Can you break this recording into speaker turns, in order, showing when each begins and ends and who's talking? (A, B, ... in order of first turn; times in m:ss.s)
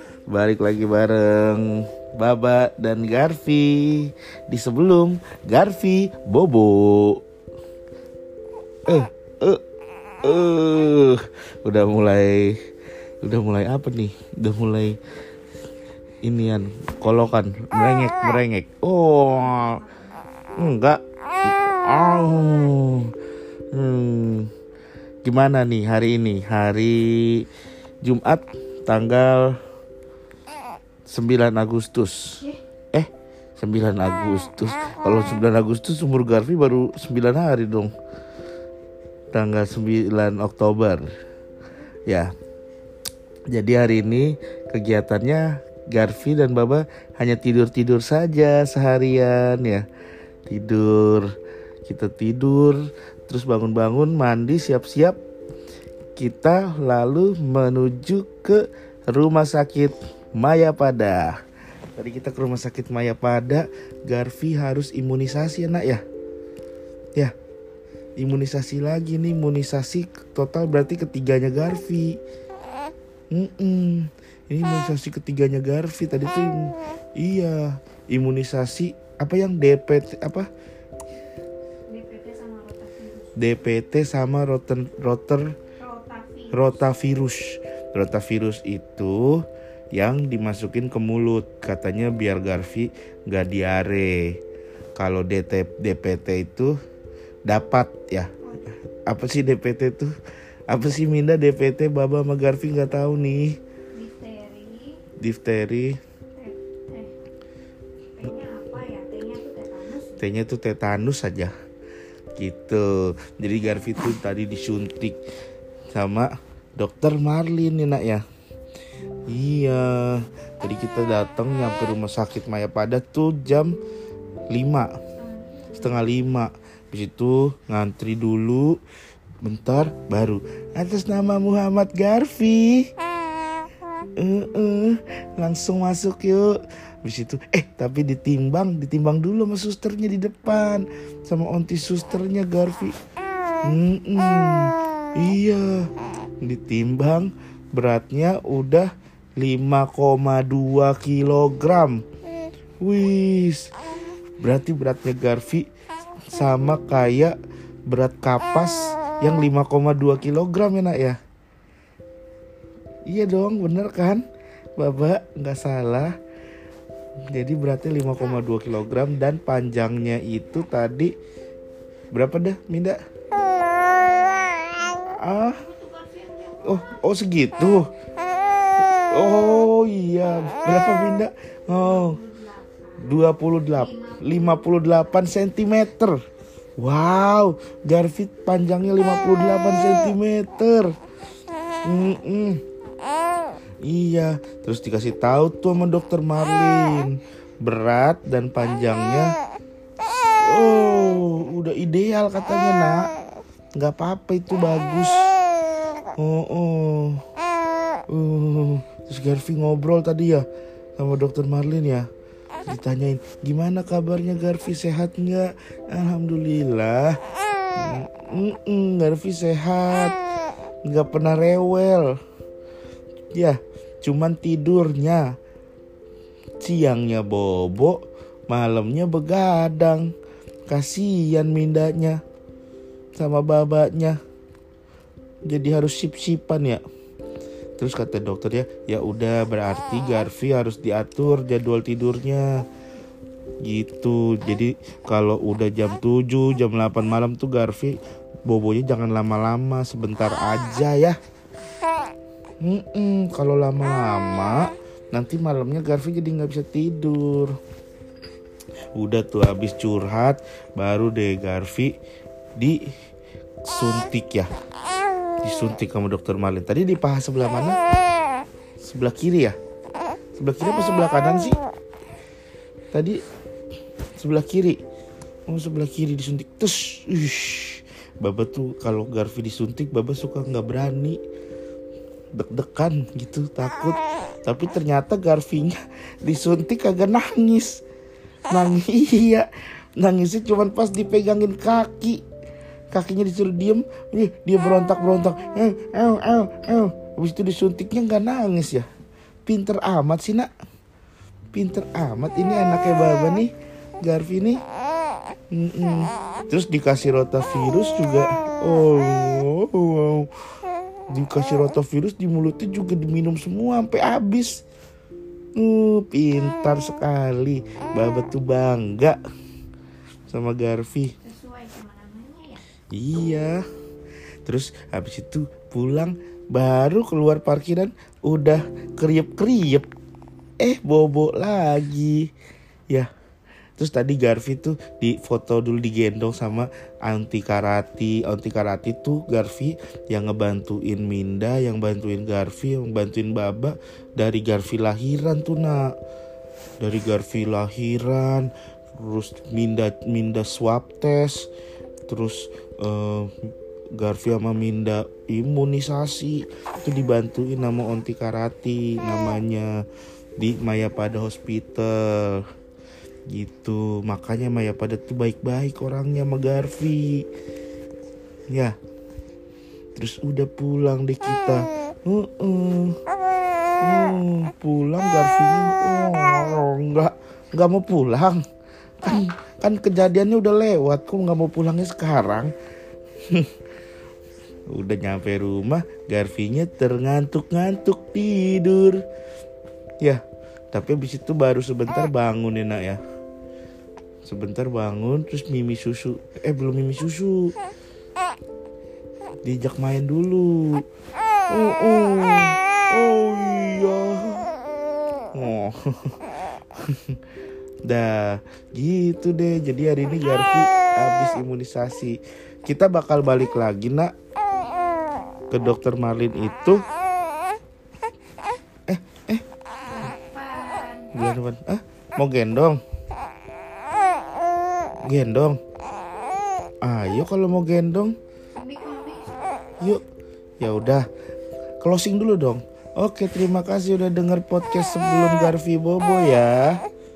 0:00.3-0:07.2 A
0:08.8-0:09.6 A
0:10.2-0:12.6 A
0:13.2-0:15.0 A
0:16.2-0:19.8 A
0:19.2-0:20.3 B
0:20.6-0:23.1 A
0:23.7-0:24.5 A
0:25.2-0:27.5 A
0:28.0-0:29.6 A
0:31.1-0:37.9 A
0:39.3-0:41.1 A
0:43.5-0:49.8 A
0:50.4-0:51.3 A
0:51.8-0:55.2 A
0:56.2-1:01.4 A
1:02.0-1:06.0 A
1:08.2-1:12.2 A
1:13.3-1:20.5 A
1:21.9-1:23.4 B
1:23.4-1:25.5 A
1:25.8-1:26.8 B
1:26.5-1:34.4 A
1:35.0-1:36.8 A
1:37.4-1:38.3 A
1:39.0-1:40.1 A
1:40.7-1:43.6 A
1:43.9-1:45.0 B
1:45.2-1:46.0 A
1:46.3-1:47.1 B
1:48.1-1:50.3 B
1:50.2-1:51.5 A
1:52.4-1:55.2 A
1:55.9-1:58.2 A
1:59.3-2:03.8 A
2:04.5-2:04.9 A
2:05.2-2:06.0 B
2:05.7-2:08.8 A
2:09.4-2:12.9 A
2:14.2-2:23.0 A
2:23.6-2:25.9 A
2:26.4-2:32.0 A
2:32.8-2:33.7 A
2:34.4-2:35.7 A
2:36.3-2:37.4 A
2:37.9-2:41.2 A
2:43.0-2:44.2 A
2:44.8-2:46.1 A
2:47.3-2:51.1 A
2:52.1-2:53.0 A
2:53.3-2:57.1 B
2:55.0-2:55.6 A
2:56.6-2:57.9 A
2:59.0-3:02.2 A
3:01.7-3:05.2 B
3:03.0-3:06.2 A
3:06.8-3:10.9 A
3:11.8-3:12.6 A
3:13.8-3:19.3 A
3:20.4-3:23.1 A
3:23.8-3:25.3 A
3:26.2-3:27.2 A
3:28.1-3:30.4 A
3:31.0-3:32.1 A
3:32.6-3:37.2 A
3:37.7-3:40.2 A
3:40.8-3:42.2 A
3:43.3-3:45.3 A
3:46.6-3:50.1 A
3:50.7-3:52.2 A
3:53.1-3:54.2 A
3:55.4-3:56.8 A
3:57.8-4:02.6 A
4:03.6-4:11.2 A
4:12.6-4:17.5 A
4:18.9-4:21.9 A
4:23.6-4:24.5 A
4:25.4-4:27.8 A
4:28.8-4:29.5 A
4:30.3-4:31.6 A
4:32.9-4:33.2 A
4:34.2-4:34.8 A
4:35.5-4:41.2 A
4:42.3-4:47.8 A
4:48.5-4:52.2 A
4:52.9-4:58.9 A
4:59.4-5:00.5 A
5:01.5-5:04.6 A
5:05.5-5:10.3 A
5:11.1-5:14.6 A
5:15.6-5:19.2 A
5:20.3-5:21.1 A
5:21.2-5:22.6 B
5:22.9-5:23.6 A
5:24.4-5:29.9 A
5:30.6-5:32.3 A
5:33.8-5:45.9 A
5:46.8-5:51.5 A
5:52.1-5:53.3 A
5:54.0-5:59.8 A
6:00.4-6:02.4 A
6:03.3-6:07.2 A
6:08.5-6:08.7 A
6:09.9-6:13.0 A
6:13.8-6:18.4 A
6:19.0-6:22.5 A
6:24.7-6:29.0 A
6:30.0-6:33.0 A
6:34.2-6:37.5 A
6:39.4-6:40.8 A
6:41.5-6:44.5 A
6:45.3-6:46.2 A
6:46.8-6:47.2 A
6:47.8-6:54.1 A
6:55.5-6:56.8 A
6:58.9-6:59.4 A
6:59.9-7:01.1 B
7:01.1-7:02.8 A
7:05.0-7:05.6 A
7:06.8-7:08.1 A
7:08.5-7:09.5 B
7:09.8-7:10.0 A
7:10.6-7:11.0 A
7:11.8-7:16.8 A